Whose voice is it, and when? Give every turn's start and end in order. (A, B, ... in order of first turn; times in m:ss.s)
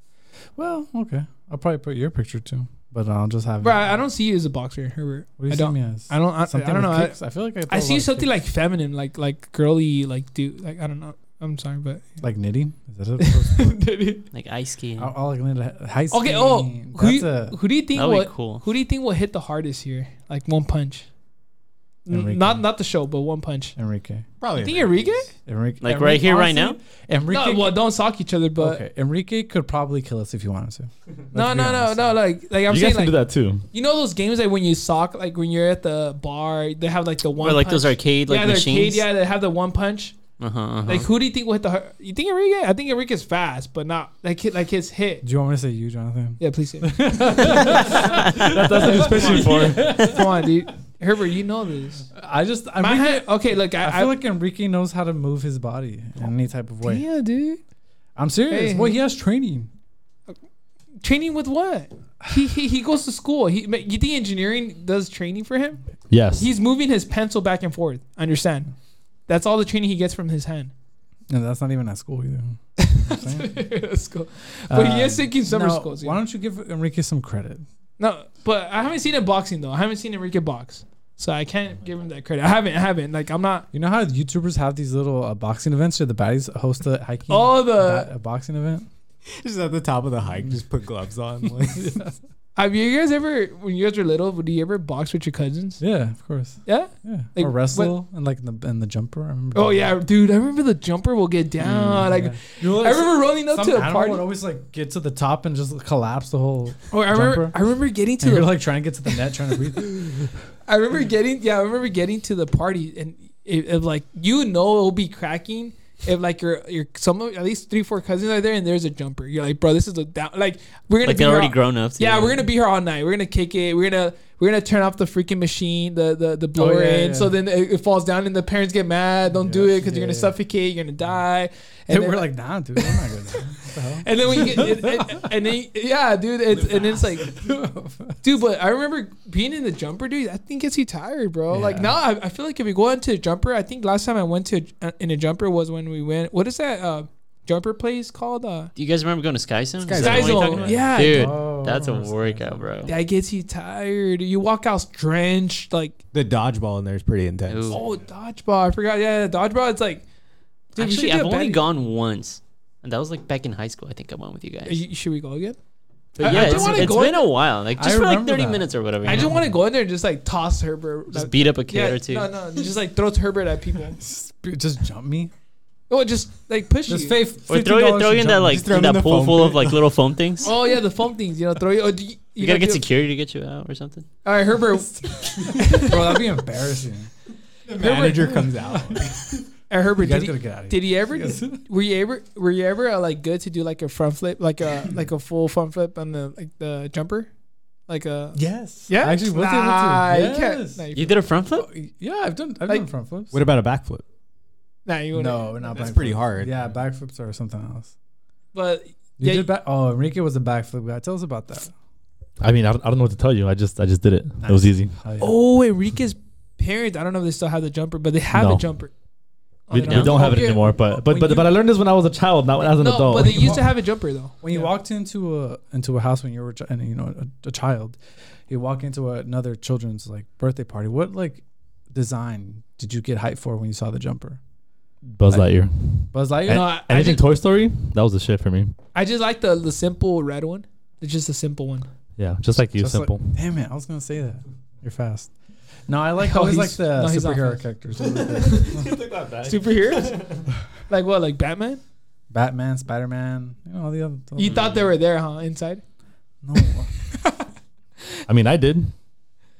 0:00.6-0:03.9 A
0:03.6-0:12.2 B
0:05.4-0:08.3 A
0:12.2-0:13.8 A
0:13.3-0:14.2 B
0:14.3-0:15.1 C
0:15.0-0:17.6 A
0:16.1-0:21.1 B
0:17.9-0:18.6 C
0:22.0-0:23.8 B
0:22.1-0:22.6 A
0:23.8-0:24.2 A
0:24.4-0:25.3 D
0:24.6-0:25.3 B
0:25.4-0:27.8 A
0:25.8-0:26.8 C
0:26.0-0:26.7 B
0:27.3-0:28.8 B
0:28.6-0:32.2 A
0:31.3-0:33.2 B
0:32.7-0:33.6 E
0:33.7-0:40.2 B
0:37.4-0:39.1 C
0:40.4-0:41.1 C
0:40.8-0:45.2 B
0:45.2-0:50.5 A
0:46.4-0:47.9 B
0:48.5-0:50.0 E
0:48.8-0:52.1 B
0:52.1-0:57.0 A
0:52.8-0:54.1 B
0:56.8-0:57.6 B
0:58.2-0:59.7 A
0:58.5-0:58.9 B
1:01.0-1:10.7 B
1:06.1-1:06.5 E
1:11.3-1:13.5 A
1:12.9-1:16.2 B
1:14.7-1:17.6 A
1:18.0-1:23.7 B
1:23.7-1:28.9 A
1:27.3-1:28.1 B
1:29.3-1:32.0 D
1:31.8-1:32.1 A
1:32.5-1:35.8 B
1:35.8-1:39.9 A
1:36.6-1:38.0 B
1:39.5-1:44.2 B
1:41.6-1:42.1 C
1:42.0-1:50.3 A
1:46.9-1:48.6 B
1:50.6-2:17.5 B
2:01.0-2:02.4 C
2:06.5-2:07.4 A
2:09.4-2:10.4 A
2:11.9-2:15.2 A
2:17.2-2:18.2 A
2:18.2-2:28.7 B
2:21.5-2:21.9 A
2:28.8-2:32.9 C
2:29.8-2:30.9 D
2:29.9-2:31.4 B
2:30.9-2:32.7 A
2:32.8-2:36.0 B
2:36.1-2:37.8 D
2:37.5-2:37.8 C
2:37.7-2:40.0 B
2:40.7-2:41.6 B
2:40.8-2:44.8 C
2:44.6-2:45.6 B
2:46.2-2:49.3 C
2:46.2-2:47.2 B
2:46.2-2:49.5 A
2:49.0-2:54.0 B
2:51.1-2:52.3 C
2:54.0-2:55.3 A
2:55.9-2:57.2 B
2:56.9-2:58.6 A
2:57.5-3:00.5 C
2:58.4-2:59.9 D
3:00.4-3:02.8 B
3:02.4-3:04.0 C
3:04.2-3:06.2 B
3:05.6-3:07.1 A
3:07.6-3:09.4 D
3:07.8-3:08.6 B
3:09.7-3:17.3 B
3:10.0-3:11.6 A
3:17.9-3:21.2 B
3:18.3-3:20.8 A
3:20.9-3:21.7 C
3:21.5-3:23.4 A
3:23.3-3:24.0 D
3:24.8-3:25.8 B
3:25.1-3:27.9 A
3:25.6-3:26.7 D
3:28.5-3:29.5 B
3:29.2-3:31.7 A
3:32.4-3:35.0 E
3:34.4-3:35.3 A
3:35.2-3:38.9 B
3:38.3-3:38.6 E
3:39.7-3:40.6 B
3:39.7-3:43.6 E
3:39.8-3:41.5 A
3:42.6-3:44.7 B
3:43.3-3:54.4 A
3:55.0-3:58.7 E
3:55.3-3:56.6 A
3:56.5-3:57.2 B
3:58.9-4:01.9 B
4:02.2-4:03.3 E
4:02.7-4:08.9 A
4:06.2-4:07.7 B
4:08.1-4:10.5 E
4:09.4-4:11.8 B
4:12.3-4:14.7 A
4:14.4-4:15.8 B
4:16.4-4:16.9 A
4:18.3-4:19.0 E